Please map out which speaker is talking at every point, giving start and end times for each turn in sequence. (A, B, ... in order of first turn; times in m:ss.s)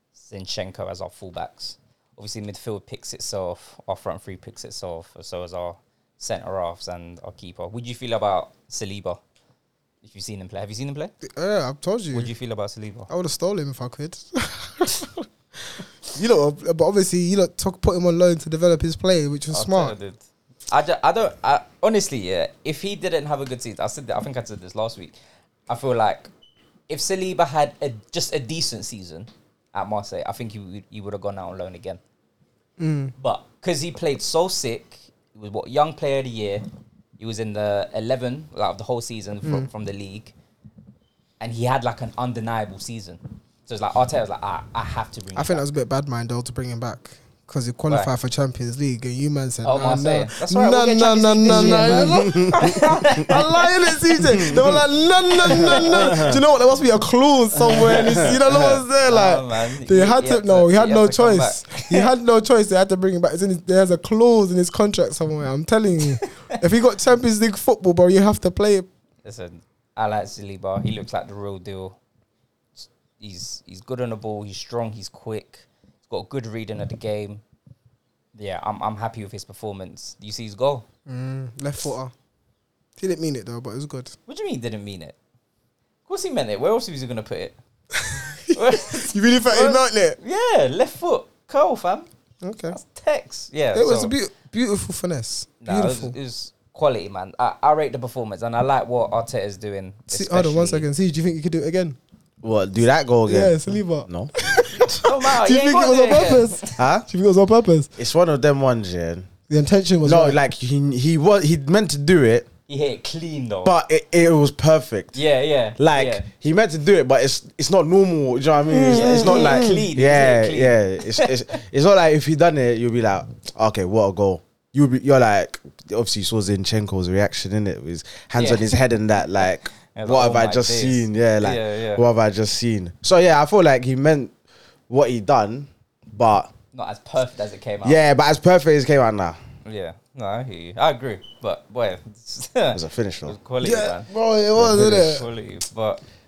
0:00.2-0:09.2 A
0:10.0-0:11.1 A
0:11.2-0:12.3 B
0:12.1-0:13.1 A
0:13.1-0:20.0 B
0:19.5-0:25.2 A
0:25.7-0:26.3 A
0:26.9-0:32.0 A
0:32.8-0:33.1 B
0:33.2-0:36.6 A
0:37.2-0:40.3 A
0:39.4-0:39.7 B
0:41.4-0:45.6 A
0:45.4-1:08.9 B
0:49.6-0:54.6 A
0:51.5-0:53.3 C
0:54.2-0:54.8 C
0:55.4-0:56.4 C
0:55.6-0:56.3 A
0:57.5-0:58.8 C
0:57.7-0:58.5 A
0:59.0-1:02.1 A
1:06.2-1:06.6 A
1:09.2-1:12.0 A
1:12.8-1:17.4 A
1:18.4-1:20.9 A
1:21.1-1:22.1 B
1:23.0-1:24.2 B
1:24.3-1:25.2 A
1:26.1-1:27.6 A
1:27.9-1:30.2 B
1:28.5-1:32.1 A
1:32.4-1:32.8 B
1:32.7-1:34.1 A
1:33.7-1:36.2 B
1:35.6-1:40.9 A
1:40.1-1:42.0 B
1:42.4-1:44.3 C
1:43.3-1:47.9 B
1:44.9-1:46.8 A
1:46.8-1:47.1 C
1:48.0-1:49.3 C
1:49.5-1:50.4 B
1:50.0-1:52.5 C
1:52.7-1:53.7 A
1:53.6-1:55.2 C
1:55.1-1:56.3 A
1:55.8-2:14.3 C
1:58.7-1:59.9 B
1:58.9-2:01.6 A
2:08.4-2:08.7 A
2:09.4-2:12.0 A
2:14.9-2:16.5 C
2:16.7-2:18.0 A
2:17.8-2:19.4 C
2:19.6-2:26.0 A
2:22.7-2:23.4 C
2:23.6-2:25.3 B
2:24.6-2:25.0 C